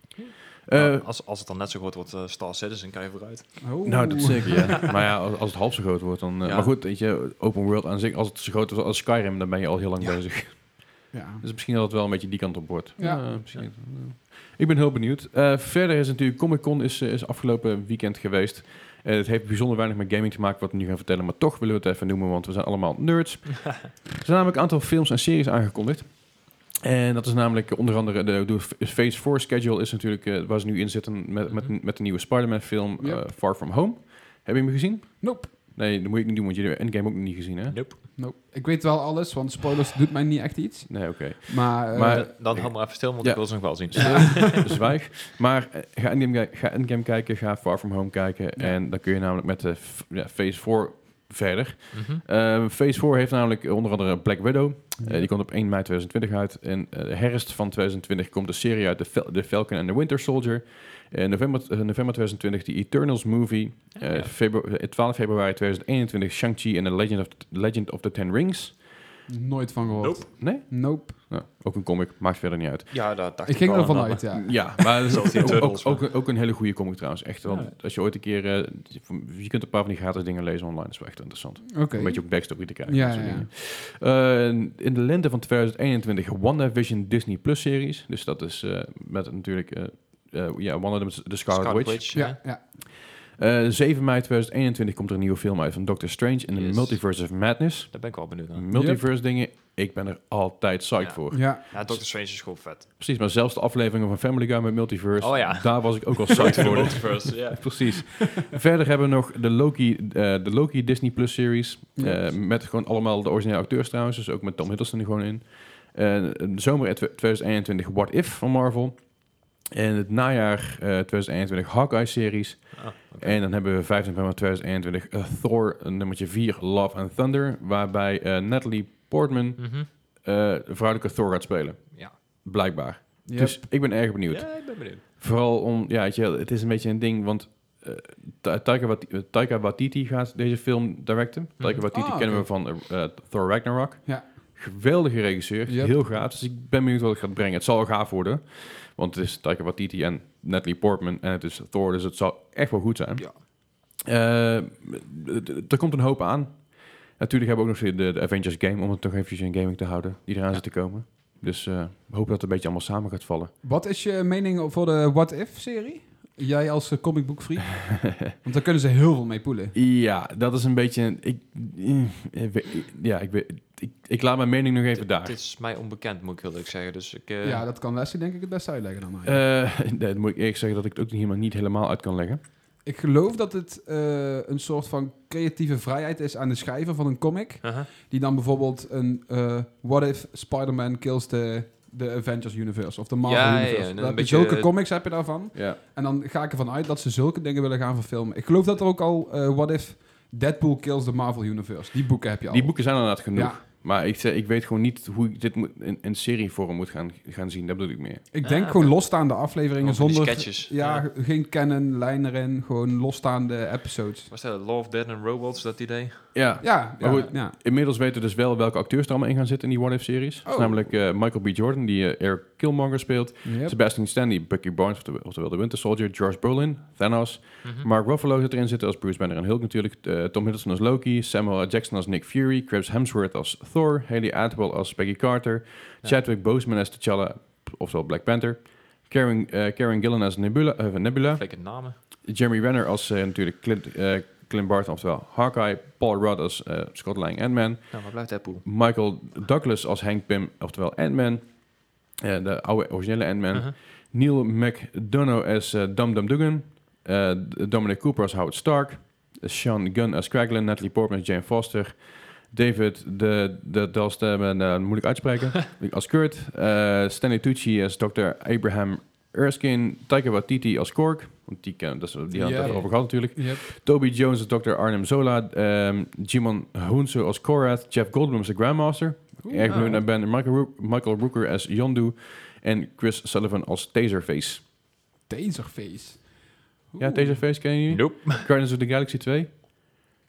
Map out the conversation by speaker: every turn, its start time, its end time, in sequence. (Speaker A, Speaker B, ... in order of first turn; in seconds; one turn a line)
Speaker A: 0.2-4.1
Speaker B: 0.7-1.0
Speaker C: 3.6-4.7
Speaker B: 3.8-37.8
Speaker A: 6.4-6.7
Speaker A: 10.0-10.4
Speaker C: 11.1-11.4
Speaker C: 13.0-13.3
Speaker A: 13.0-13.7
Speaker A: 31.5-31.7
Speaker C: 33.0-33.3
Speaker C: 35.2-35.5
Speaker A: 37.7-38.0
Speaker C: 38.1-42.7
Speaker B: 40.9-69.0
Speaker A: 42.0-44.6
Speaker C: 44.0-44.5
Speaker A: 51.9-52.2
Speaker C: 55.0-55.3
Speaker A: 64.0-64.3
Speaker C: 69.3-71.2
Speaker A: 70.0-70.2
Speaker B: 70.3-72.9
Speaker A: 72.9-76.1
Speaker C: 73.4-75.1
Speaker B: 74.3-163.5
Speaker A: 77.4-77.7
Speaker C: 81.7-83.5
Speaker A: 91.5-92.4
Speaker C: 92.1-92.6
Speaker A: 96.5-98.6
Speaker C: 98.7-99.0
Speaker A: 101.0-102.9
Speaker C: 101.3-101.6
Speaker A: 105.2-108.2
Speaker C: 112.0-112.4
Speaker A: 122.7-123.4
Speaker A: 129.6-129.9
Speaker C: 133.2-133.6
Speaker A: 134.3-135.0
Speaker A: 141.6-141.8
Speaker C: 141.9-142.5
Speaker C: 144.1-144.6
Speaker C: 145.7-146.0
Speaker C: 163.6-169.7
Speaker B: 169.7-175.4
Speaker A: 174.9-177.6
Speaker C: 177.4-179.4
Speaker B: 179.2-182.4
Speaker C: 182.8-203.6
Speaker A: 187.6-187.9
Speaker A: 193.2-194.7
Speaker B: 195.5-195.8
Speaker B: 202.5-208.2
Speaker C: 208.3-214.3
Speaker A: 208.4-211.1
Speaker A: 214.3-216.7
Speaker B: 216.3-284.6
Speaker C: 216.6-217.6
Speaker C: 220.4-220.9
Speaker C: 223.4-223.8
Speaker A: 227.6-227.9
Speaker A: 241.3-241.9
Speaker A: 247.9-248.7
Speaker C: 272.3-273.7
Speaker A: 272.6-272.9
Speaker C: 279.4-280.0
Speaker A: 279.6-280.0
Speaker C: 285.3-287.4
Speaker B: 287.0-289.6
Speaker A: 287.9-288.4